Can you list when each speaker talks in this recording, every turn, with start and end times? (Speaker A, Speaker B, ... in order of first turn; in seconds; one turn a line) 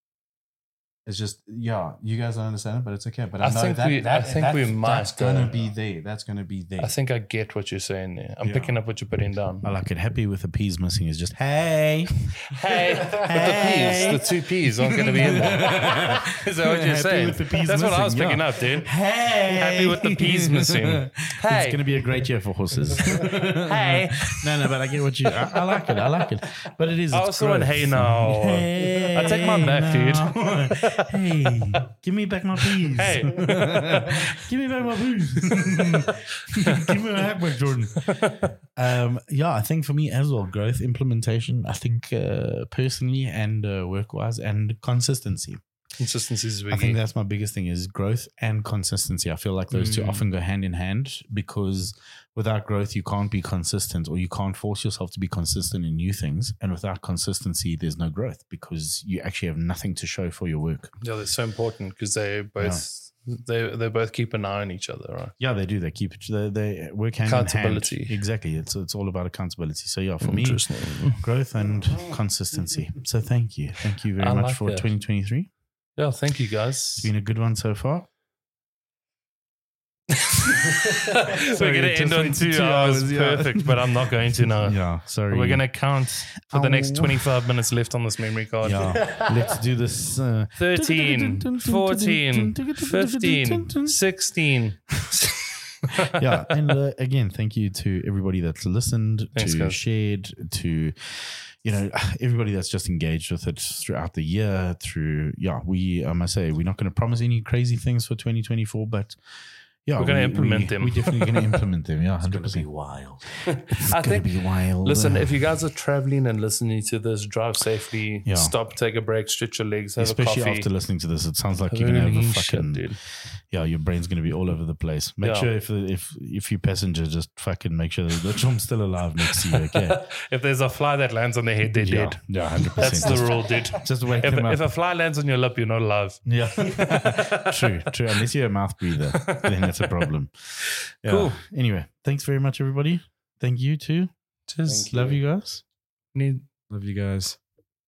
Speaker A: 1.1-6.9
Speaker B: 3.4-5.5
Speaker B: 6.8-9.7
Speaker A: 8.4-8.7
Speaker C: 9.6-12.5
Speaker B: 12.4-22.0
Speaker C: 13.2-45.6
Speaker B: 23.6-24.5
Speaker B: 25.7-26.0
Speaker B: 27.1-31.2
Speaker B: 32.9-34.4
Speaker B: 35.5-37.0
Speaker B: 38.0-38.5
Speaker B: 46.0-47.0
Speaker C: 46.7-60.9
Speaker B: 49.7-50.2
Speaker B: 61.0-65.3
Speaker C: 65.4-75.5
Speaker B: 67.2-68.2
Speaker B: 70.2-71.3
Speaker A: 71.7-72.2
Speaker B: 74.2-74.9
Speaker B: 76.0-77.1
Speaker C: 77.0-78.1
Speaker B: 80.2-89.1
Speaker C: 81.5-87.3
Speaker C: 88.6-94.2
Speaker A: 89.0-89.4
Speaker B: 90.6-96.2
Speaker C: 96.0-109.2
Speaker B: 99.3-99.8
Speaker C: 109.8-115.4
Speaker B: 110.0-111.5
Speaker A: 112.2-113.2
Speaker B: 113.5-120.7
Speaker C: 118.3-118.6
Speaker C: 120.0-130.1
Speaker B: 121.7-123.0
Speaker B: 125.2-125.5
Speaker B: 129.7-137.7
Speaker C: 131.7-134.7
Speaker C: 136.2-144.1
Speaker B: 139.2-139.9
Speaker B: 141.0-141.4
Speaker B: 144.5-144.9
Speaker A: 144.7-145.2
Speaker C: 144.9-145.6
Speaker B: 146.1-146.5
Speaker A: 146.7-147.4